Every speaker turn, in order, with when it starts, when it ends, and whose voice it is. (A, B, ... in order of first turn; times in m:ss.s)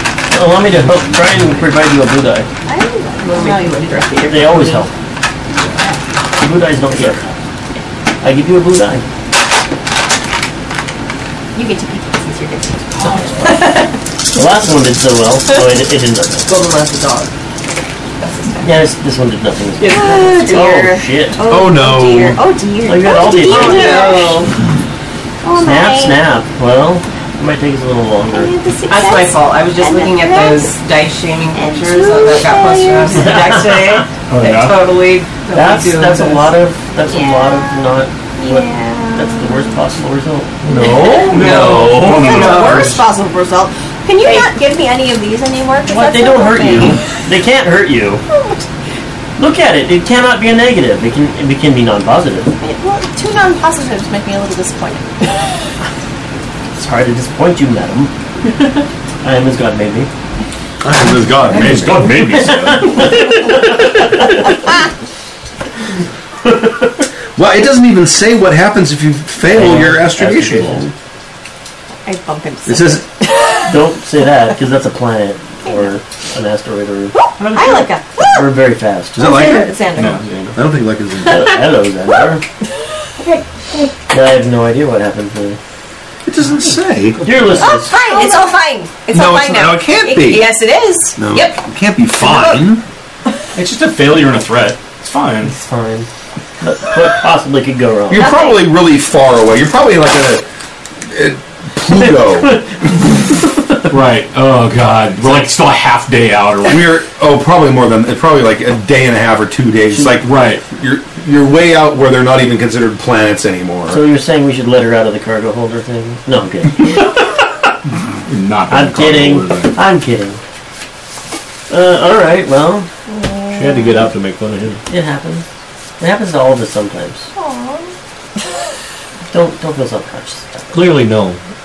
0:00.2-0:02.5 A
0:02.6-0:04.5 B
0:03.2-0:04.8 C
0:04.3-0:04.9 A
0:06.4-0:07.2 A
0:08.2-0:09.0 A
0:11.5-0:13.9 B
0:13.2-0:16.5 A
0:16.4-0:17.3 C
0:18.6-0:21.4 A
0:19.8-0:20.8 C
0:19.8-0:24.5 B
0:21.5-0:22.4 D
0:22.8-0:24.4 A
0:23.4-0:24.5 C
0:25.4-0:26.2 B
0:25.6-0:28.6 A
0:28.3-0:30.7 B
0:28.9-0:36.5 C
0:31.5-0:33.4 B
0:33.1-0:34.0 A
0:34.3-0:34.8 E
0:35.5-0:41.4 A
0:37.1-0:39.8 B
0:40.8-0:47.2 B
0:41.0-0:43.0 C
0:41.3-0:43.0 E
0:45.9-0:48.2 A
0:48.3-0:48.6 B
0:49.4-0:52.5 A
0:52.6-0:55.4 B
0:56.8-1:00.1 A
1:00.8-1:01.7 D
1:01.3-1:03.9 E
1:01.5-1:04.5 A
1:06.4-1:06.9 A
1:07.3-1:10.8 D
1:09.4-1:10.9 A
1:12.0-1:13.8 B
1:12.6-1:13.1 D
1:13.6-1:17.1 A
1:15.6-1:15.9 B
1:17.4-1:18.4 B
1:17.5-1:17.9 C
1:18.2-1:19.7 A
1:19.1-1:19.7 D
1:19.2-1:20.2 B
1:19.9-1:20.6 E
1:20.5-1:21.5 D
1:21.2-1:22.4 A
1:23.2-1:23.9 B
1:24.1-1:25.6 A
1:26.2-1:27.7 D
1:27.2-1:28.1 A
1:27.6-1:31.6 B
1:29.1-1:30.5 D
1:31.2-1:32.8 D
1:33.5-1:35.6 E
1:35.4-1:36.1 A
1:36.6-1:38.5 A
1:38.1-1:40.4 D
1:38.2-1:38.6 B
1:41.0-1:42.6 D
1:42.1-1:42.7 A
1:43.9-1:47.0 E
1:45.2-1:45.5 A
1:46.6-1:54.0 D
1:49.9-1:50.2 A
1:50.2-1:50.6 E
1:53.8-1:57.1 A
1:58.2-1:59.8 E
1:58.7-2:00.4 A
2:01.7-2:02.9 A
2:03.1-2:04.0 B
2:03.5-2:04.8 F
2:04.9-2:05.4 A
2:06.0-2:07.3 A
2:07.3-2:07.9 B
2:09.3-2:11.0 A
2:10.7-2:11.4 F